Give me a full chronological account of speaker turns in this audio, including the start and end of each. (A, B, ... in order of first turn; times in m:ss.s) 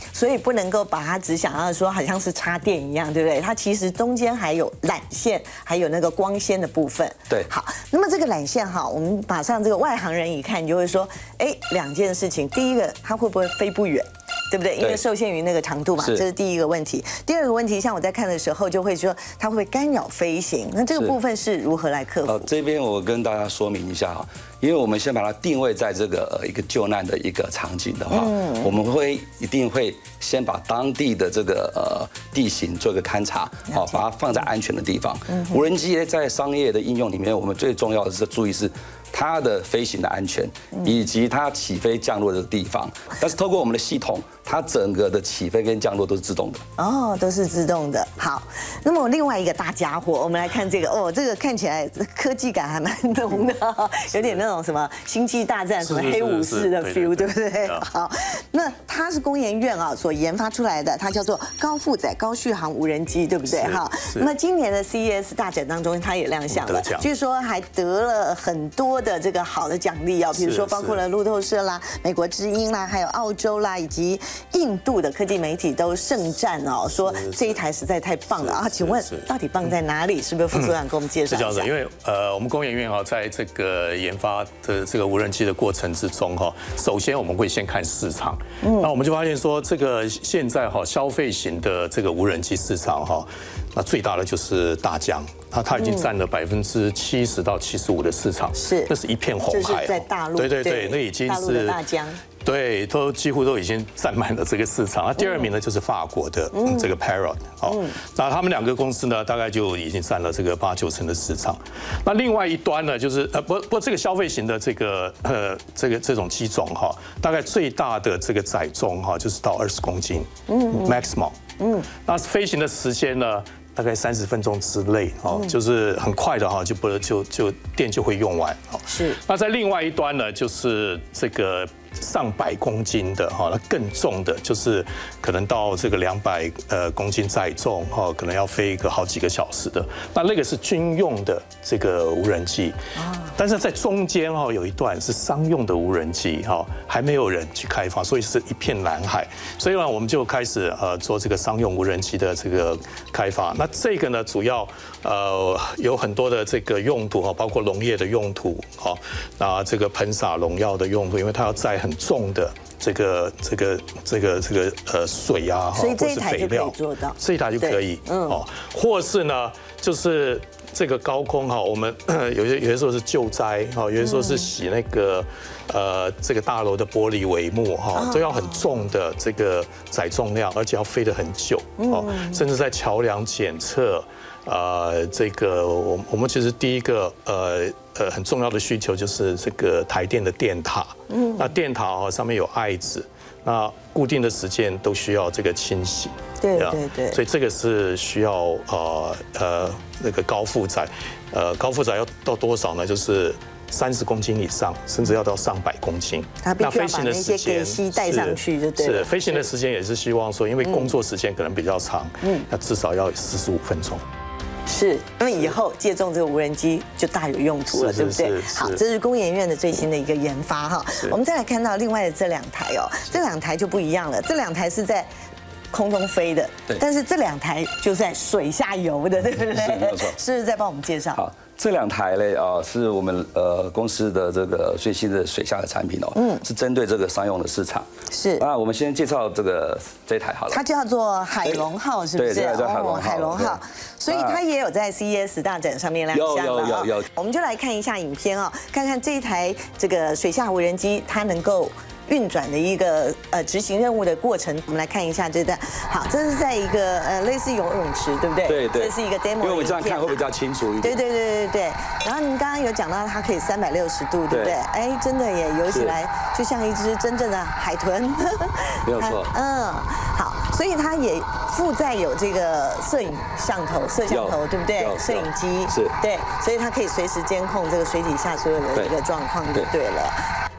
0:00.1-0:22.5 A
0:16.0-0:16.3 B
0:22.3-0:46.6 B
0:28.1-0:28.8 A
0:33.7-0:34.0 A
0:46.8-1:21.7 A
0:55.8-0:57.9 C
1:03.4-1:04.3 C
1:06.5-1:07.1 C
1:10.3-1:11.0 C
1:16.8-1:17.6 C
1:18.4-1:19.3 C
1:21.3-1:41.8 C
1:28.6-1:28.9 A
1:35.7-1:36.1 A
1:38.6-1:42.2 A
1:42.4-2:01.4 C
1:45.2-1:45.5 A
1:46.5-1:46.9 A
1:47.7-1:48.0 A
2:00.5-2:01.0 A
2:01.6-2:01.9 A
2:02.0-2:22.8 C
2:05.3-2:05.6 A
2:08.9-2:09.2 A
2:23.4-3:34.0 C
2:45.7-2:48.4 A
2:54.0-2:54.5 A
2:58.0-2:58.8 A
3:01.8-3:02.5 A
3:11.1-3:11.5 A
3:16.4-3:17.2 A
3:26.4-3:29.5 A
3:30.6-3:30.9 A
3:34.7-3:45.1 A
3:37.7-3:38.8 C
3:45.7-3:51.2 A
3:49.6-3:50.2 B
3:51.2-3:57.9 B
3:56.2-3:56.4 A
3:58.1-3:58.4 A
3:58.4-4:00.6 B
4:00.5-4:20.2 A
4:01.4-4:04.4 B
4:06.1-4:07.1 B
4:18.5-4:21.0 B
4:20.8-4:40.2 A
4:24.3-4:24.6 B
4:25.7-4:26.0 B
4:28.9-4:29.3 B
4:34.1-4:36.0 B